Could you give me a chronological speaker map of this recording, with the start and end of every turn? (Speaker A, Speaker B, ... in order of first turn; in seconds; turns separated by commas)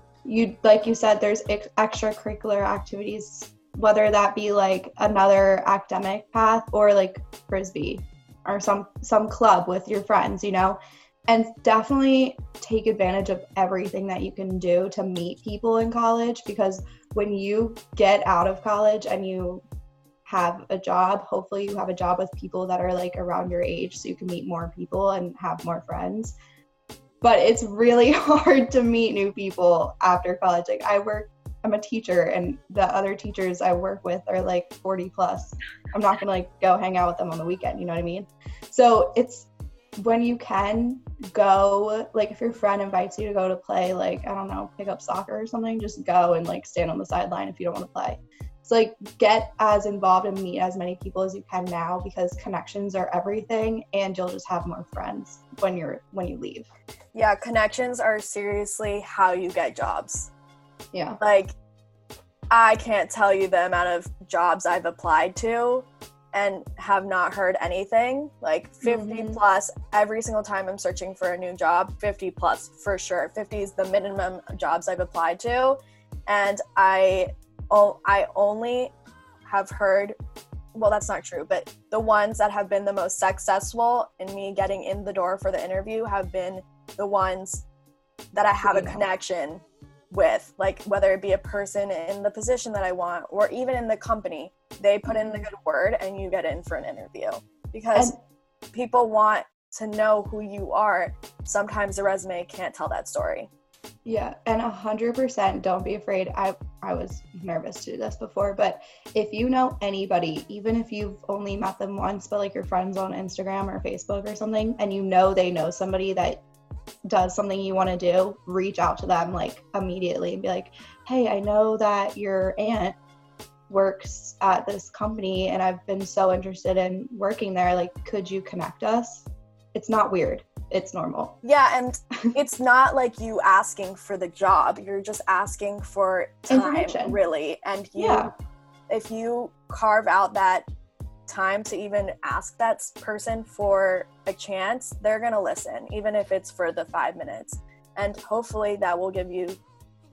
Speaker A: 0.2-19.6, Speaker A: 20.2-26.4, Speaker A: 27.2-56.7, Speaker B: 57.1-60.3, Speaker A: 60.9-61.2, Speaker B: 61.2-61.5, Speaker B: 62.5-78.9, Speaker A: 68.8-69.4, Speaker B: 79.5-80.2, Speaker B: 80.7-87.6, Speaker B: 88.3-98.1, Speaker A: 88.6-89.0, Speaker A: 95.1-95.5, Speaker A: 97.9-98.2, Speaker B: 98.7-103.5, Speaker A: 104.0-116.4, Speaker A: 117.1-123.0, Speaker A: 123.7-131.4, Speaker B: 131.4-138.3, Speaker A: 136.5-137.2, Speaker A: 138.0-138.3, Speaker B: 138.9-140.7, Speaker B: 141.3-149.6